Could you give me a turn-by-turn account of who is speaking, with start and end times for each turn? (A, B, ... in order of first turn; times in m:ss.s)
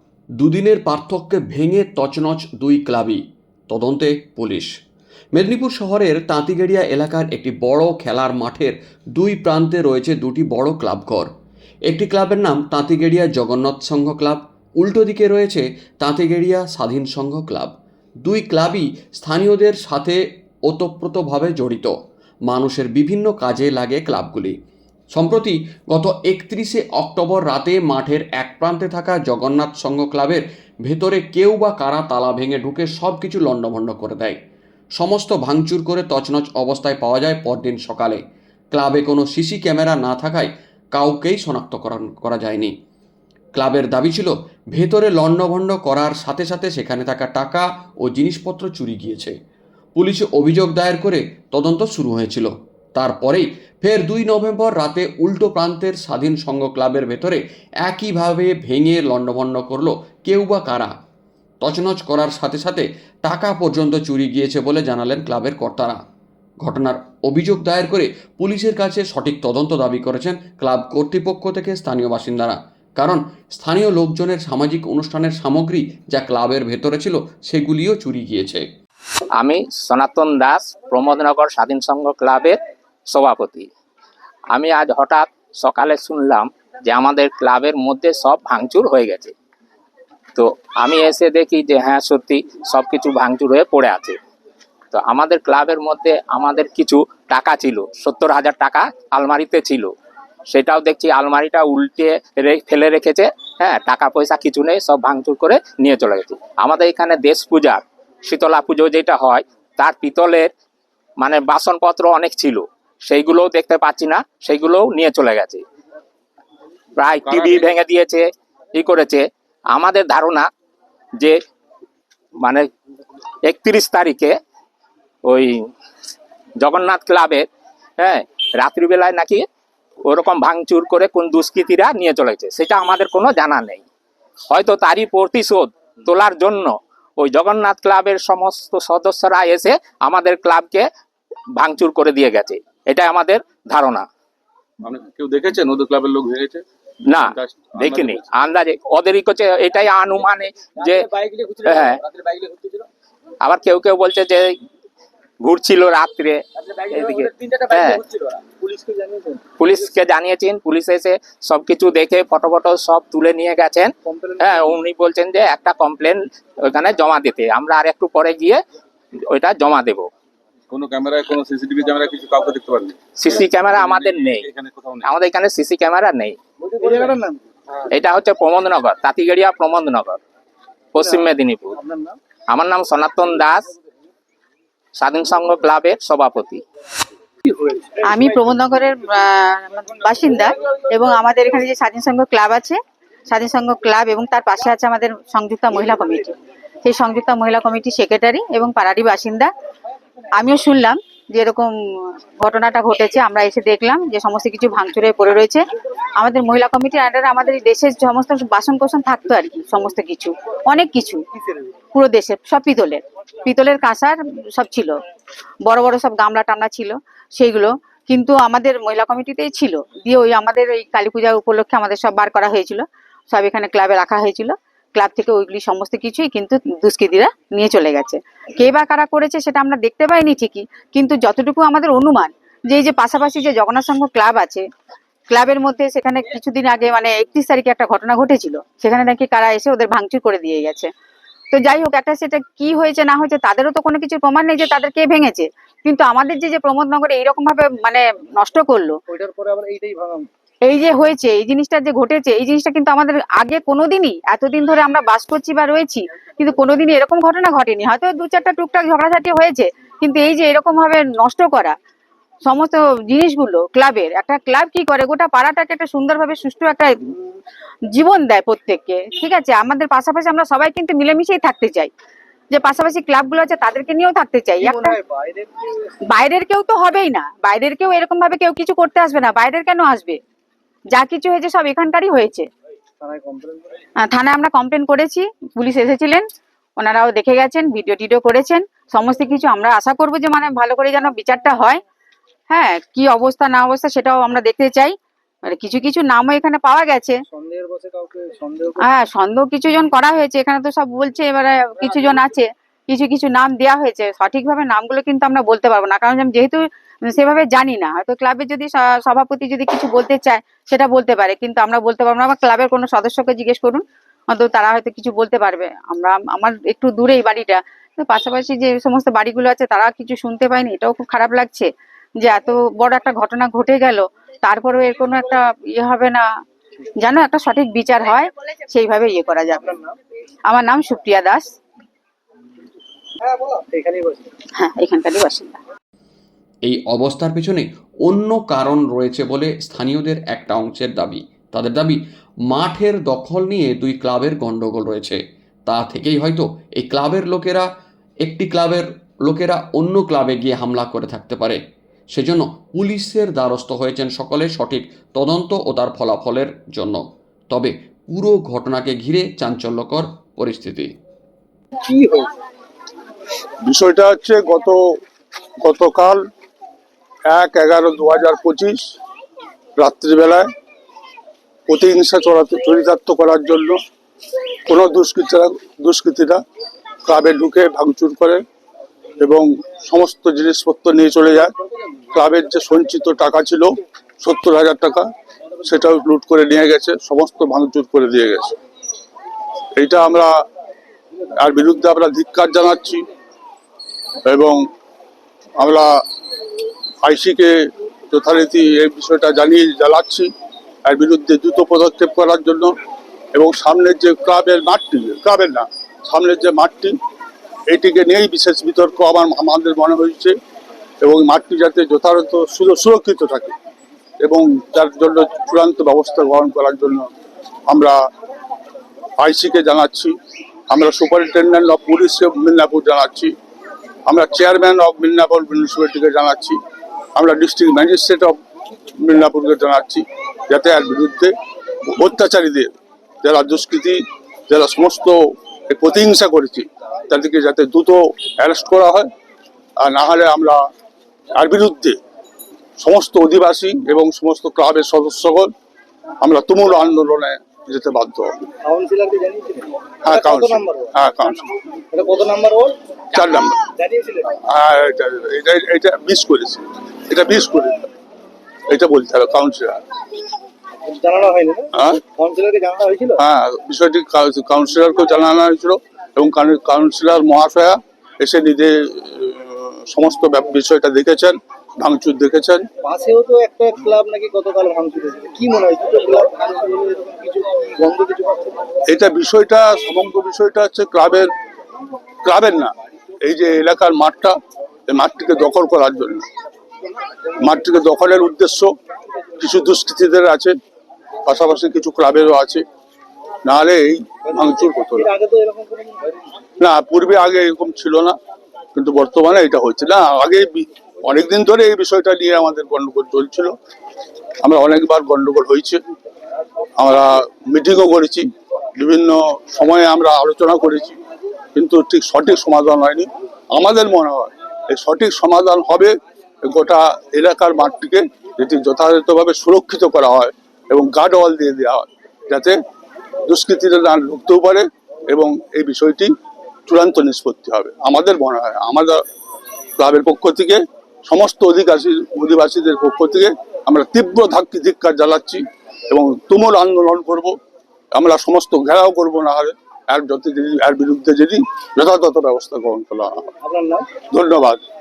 0:00.4-0:04.7 A
0:05.4-0:11.3 A
0:11.9-0:21.9 A
0:22.5-0:24.6 A
0:25.1-0:34.4 A
0:35.0-0:38.2 A
0:38.7-0:42.7 A
0:43.6-0:49.4 A
0:50.0-1:00.9 A
1:01.6-1:06.0 A
1:06.6-1:18.6 A
1:19.4-1:22.6 B
1:23.1-1:23.7 B
1:24.5-1:29.3 B
1:30.4-1:34.2 B
1:34.9-1:39.9 B
1:40.5-1:50.5 B
1:51.2-1:55.6 B
1:57.0-2:00.5 B
1:57.2-1:57.7 C
2:02.4-2:02.7 B
2:03.5-2:04.4 B
2:05.3-2:05.7 B
2:06.6-2:07.5 B
2:08.0-2:09.4 B
2:10.0-2:13.8 B
2:14.5-2:20.9 B
2:21.6-2:24.1 B
2:24.8-2:26.6 C
2:27.1-2:32.0 B
2:27.2-2:28.2 C
2:31.1-2:32.8 C
2:33.4-2:34.6 B
2:35.4-2:38.0 B
2:38.4-2:39.4 D
2:39.6-2:48.6 B
2:44.1-2:44.8 D
2:49.3-2:50.1 B
2:50.7-2:55.1 C
2:53.2-2:54.5 B
2:55.0-2:56.4 B
2:56.6-2:57.4 D
2:57.9-3:00.2 B
3:00.9-3:01.8 B
3:01.0-3:01.2 D
3:01.8-3:02.2 D
3:02.5-3:03.7 B
3:05.0-3:06.6 B
3:07.5-3:08.0 D
3:08.0-3:19.5 E
3:20.4-3:25.6 E
3:26.2-3:31.2 E
3:31.9-3:35.0 E
3:35.6-3:54.6 E
3:55.3-4:00.9 E
4:01.5-4:09.0 E
4:09.1-4:10.3 D
4:10.6-4:21.8 E
4:22.4-4:27.2 E
4:27.9-4:31.9 E
4:32.5-4:35.0 E
4:34.6-4:35.9 D
4:36.1-4:40.2 E
4:40.9-4:42.5 E
4:43.0-4:43.7 D
4:44.0-4:46.2 E
4:46.8-4:51.8 E
4:52.5-4:55.0 E
4:55.5-4:57.2 E
4:57.3-4:58.8 D
4:58.8-5:21.7 E
5:22.2-5:26.2 E
5:27.0-5:29.8 E
5:29.7-5:30.0 D
5:30.5-5:31.5 E
5:33.2-5:34.3 D
5:34.6-5:35.6 E
5:36.7-5:47.7 A
5:48.2-5:51.6 A
5:52.1-6:00.9 A
6:01.8-6:02.3 D
6:03.6-6:05.0 F
6:05.6-6:06.2 F
6:07.3-6:08.9 F
6:09.8-6:10.5 F
6:11.7-6:13.8 F
6:14.7-6:16.4 F
6:17.1-6:18.4 F
6:19.2-6:21.5 F
6:22.1-6:25.1 F
6:25.6-6:28.6 F
6:29.8-6:30.4 F
6:31.4-6:33.1 F
6:34.3-6:34.7 F
6:35.6-6:36.0 F
6:37.0-6:40.3 F
6:40.8-6:42.8 F
6:43.3-6:47.0 F
6:47.7-6:50.4 F
6:51.0-6:53.6 F
6:54.2-6:57.1 F
6:57.7-6:58.1 F
6:59.2-7:00.2 F
7:00.7-7:03.4 F
7:04.1-7:06.6 F
7:07.2-7:08.4 F
7:09.0-7:11.3 F
7:11.9-7:12.7 F
7:13.2-7:19.1 F
7:19.8-7:20.6 F
7:21.4-7:22.0 F
7:22.8-7:25.5 F
7:26.2-7:28.3 F
7:28.6-7:30.9 D
7:30.1-7:31.4 F
7:31.9-7:32.8 D
7:33.1-7:33.6 F
7:33.7-7:34.3 D
7:34.4-7:37.9 F
7:38.7-7:39.8 F
7:40.8-7:43.2 D
7:41.8-7:42.0 F
7:43.2-7:52.7 F
7:52.8-7:58.7 D
7:58.9-8:01.3 F
8:02.2-8:04.4 F
8:04.9-8:06.3 F
8:07.4-8:08.7 F
8:09.4-8:10.6 F
8:11.3-8:12.6 F
8:13.5-8:15.1 F
8:14.3-8:16.1 D
8:16.6-8:18.2 F
8:18.8-8:23.5 F
8:24.4-8:25.8 F
8:26.8-8:31.0 F
8:31.6-8:42.6 F
8:43.3-8:46.1 F
8:46.7-8:49.0 F
8:49.8-8:57.4 F
8:57.9-9:03.3 F
9:03.4-9:03.9 D
9:04.0-9:04.6 F